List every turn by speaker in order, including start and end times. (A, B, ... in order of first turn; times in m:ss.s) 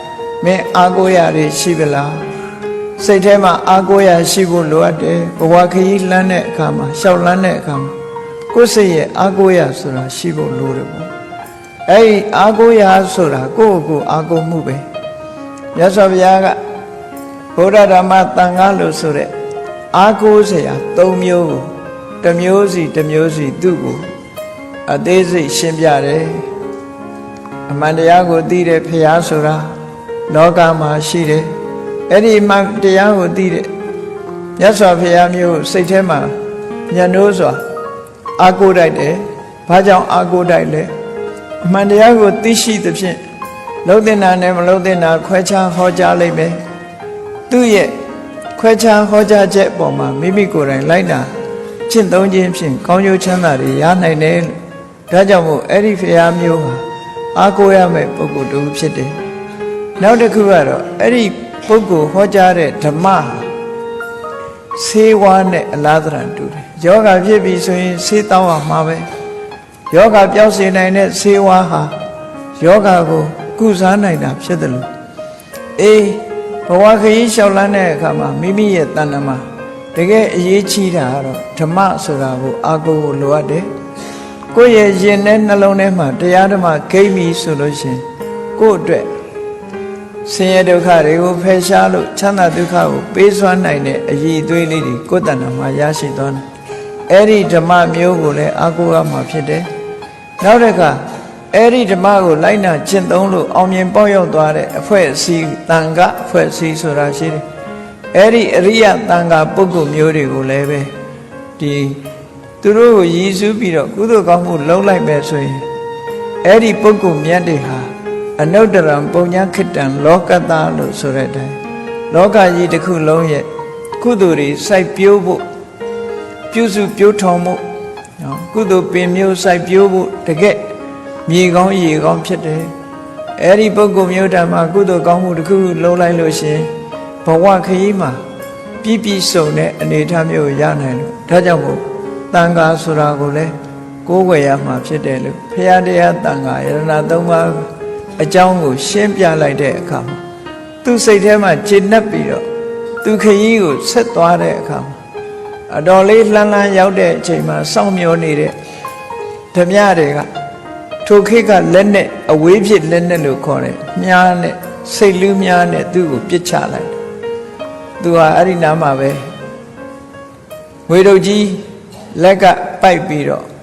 0:00.4-0:02.2 A
0:03.0-0:07.9 A
0:08.5-0:11.1 A
0:11.9-0:14.8 A
0:15.7-0:16.6 A
0:17.6-0:19.3 A
0:19.9-0:24.0 A
0:24.9-0:26.5 A
0:27.7-0:29.7 A
0:30.3-0:31.5 A
0:32.1-0:33.7 A
0:34.6-0:36.3 A
0:36.9-0:37.6 A
0:38.4-0:40.9 A
0:41.6-0:43.2 A
0:43.8-0:46.6 A
0:47.5-0:48.0 A
0:48.6-0:51.3 A
0:51.9-0:54.6 A
0:55.1-0:56.8 A
0:57.3-0:59.2 A
1:00.0-1:03.5 A
1:04.7-1:09.1 A
1:09.9-1:12.0 A
1:12.6-1:14.9 A
1:15.8-1:23.7 A
1:24.5-1:28.0 A
1:28.6-1:29.1 A
1:30.2-1:36.4 A
1:37.1-1:39.7 A
1:40.4-1:41.0 A
1:41.5-1:47.4 A
1:48.1-1:50.9 A
1:51.6-1:52.0 A
1:52.6-1:55.6 A
1:56.4-2:01.6 A
2:02.1-2:03.5 A
2:04.0-2:05.4 A
2:06.5-2:07.6 A
2:08.2-2:10.6 A
2:11.3-2:12.7 A
2:13.4-2:16.7 A
2:17.2-2:18.2 A
2:18.8-2:23.5 A
2:24.0-2:27.7 A
2:28.2-2:30.2 A
2:30.8-2:32.4 A
2:33.0-2:34.9 A
2:35.7-2:38.5 A
2:39.5-2:40.3 A
2:41.0-2:46.9 A
2:48.0-2:49.2 A
2:50.9-2:53.4 A